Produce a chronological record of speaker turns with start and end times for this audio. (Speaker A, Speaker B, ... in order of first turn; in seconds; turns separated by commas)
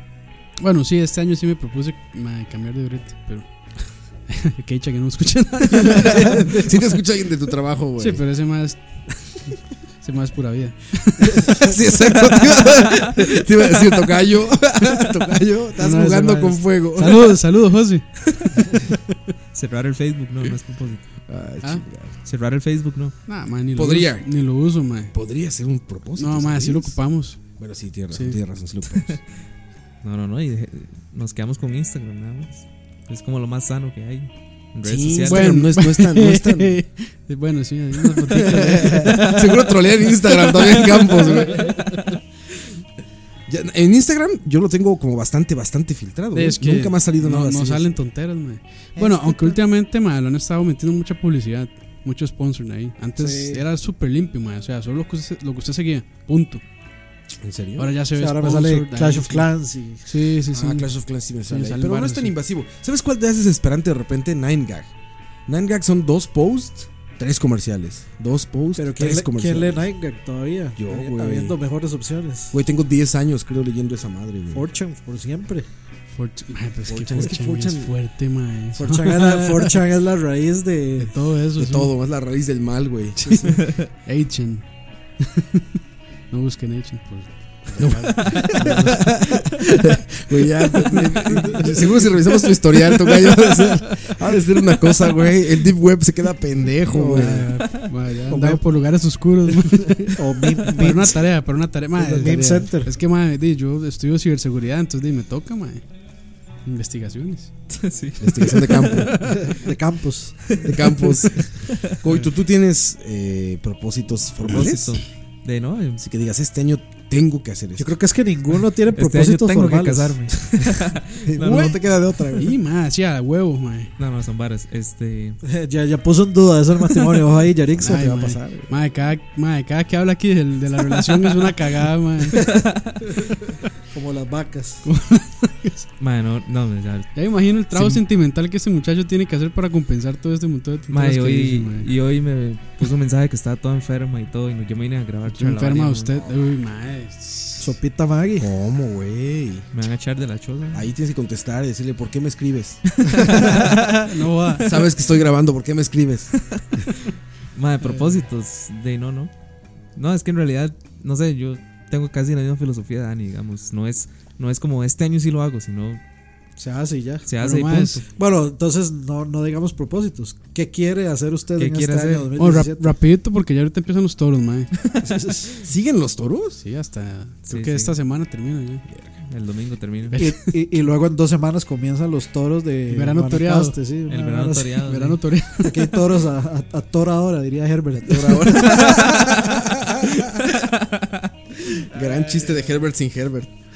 Speaker A: 0.6-6.7, Speaker B: 5.7-8.2, Speaker A: 8.0-11.7, Speaker B: 11.3-17.4, Speaker A: 15.8-18.1, Speaker C: 19.5-21.0, Speaker B: 21.3-22.1, Speaker C: 22.2-23.1, Speaker A: 23.3-25.1, Speaker B: 23.7-24.3, Speaker B: 25.1-27.0, Speaker A: 26.2-27.4, Speaker B: 27.6-29.2, Speaker A: 28.1-28.4, Speaker C: 30.0-35.6, Speaker B: 34.8-36.8, Speaker A: 35.3-39.8, Speaker B: 38.0-42.0, Speaker A: 40.3-41.9, Speaker B: 43.5-47.9, Speaker A: 46.3-56.6, Speaker D: 49.0-49.6, Speaker B: 53.2-53.6, Speaker B: 57.4-57.9, Speaker A: 57.8-59.5, Speaker D: 58.1-60.0, Speaker A: 60.0-60.9, Speaker B: 60.5-64.9, Speaker A: 61.5-62.3, Speaker B: 65.5-69.8, Speaker D: 68.8-72.5, Speaker B: 70.8-71.6, Speaker B: 72.5-74.7, Speaker D: 74.5-75.7, Speaker A: 76.1-79.8, Speaker B: 76.9-77.9, Speaker D: 78.8-81.1, Speaker A: 81.0-81.9, Speaker B: 81.6-83.7, Speaker A: 83.2-84.7, Speaker A: 85.2-85.7, Speaker A: 86.3-89.7, Speaker B: 87.8-97.5, Speaker A: 90.7-92.0, Speaker D: 96.9-97.6, Speaker A: 97.0-100.2, Speaker D: 98.3-98.6, Speaker D: 100.1-101.2, Speaker A: 100.7-105.8, Speaker D: 102.0-102.9, Speaker A: 106.7-107.5, Speaker C: 107.7-109.6, Speaker B: 108.2-109.3, Speaker D: 109.5-110.6, Speaker C: 110.6-112.0, Speaker B: 110.6-115.0, Speaker C: 114.5-116.0, Speaker B: 116.0-117.9, Speaker D: 117.8-120.3, Speaker C: 118.9-121.8, Speaker B: 121.2-122.6, Speaker A: 122.3-123.9, Speaker C: 124.0-125.4, Speaker D: 125.4-128.2, Speaker B: 127.8-128.7, Speaker A: 127.8-132.4, Speaker C: 132.4-133.0, Speaker D: 133.9-134.8, Speaker A: 134.8-135.8, Speaker C: 136.0-137.1, Speaker A: 137.1-141.9, Speaker C: 137.7-138.0, Speaker C: 140.9-146.2, Speaker A: 145.3-147.7, Speaker D: 147.6-148.5, Speaker B: 148.4-149.7, Speaker C: 149.7-150.9, Speaker B: 150.7-153.7, Speaker C: 152.9-154.0, Speaker A: 153.4-154.7, Speaker B: 154.6-156.3, Speaker C: 157.6-159.3, Speaker C: 159.9-166.0, Speaker D: 166.6-167.3, Speaker C: 167.3-168.1, Speaker A: 167.4-168.0, Speaker D: 168.1-172.9, Speaker C: 171.6-172.3, Speaker A: 172.4-174.7, Speaker D: 175.0-175.5, Speaker B: 175.6-176.6, Speaker A: 176.6-178.8, Speaker C: 177.5-177.9, Speaker B: 178.9-179.1, Speaker C: 179.3-180.2, Speaker A: 180.1-180.5, Speaker D: 180.2-184.8, Speaker A: 182.9-183.8, Speaker C: 184.1-185.2, Speaker A: 184.8-185.9, Speaker D: 185.6-189.1, Speaker B: 188.0-190.4, Speaker C: 190.6-191.2, Speaker B: 191.9-193.5, Speaker A: 192.1-192.6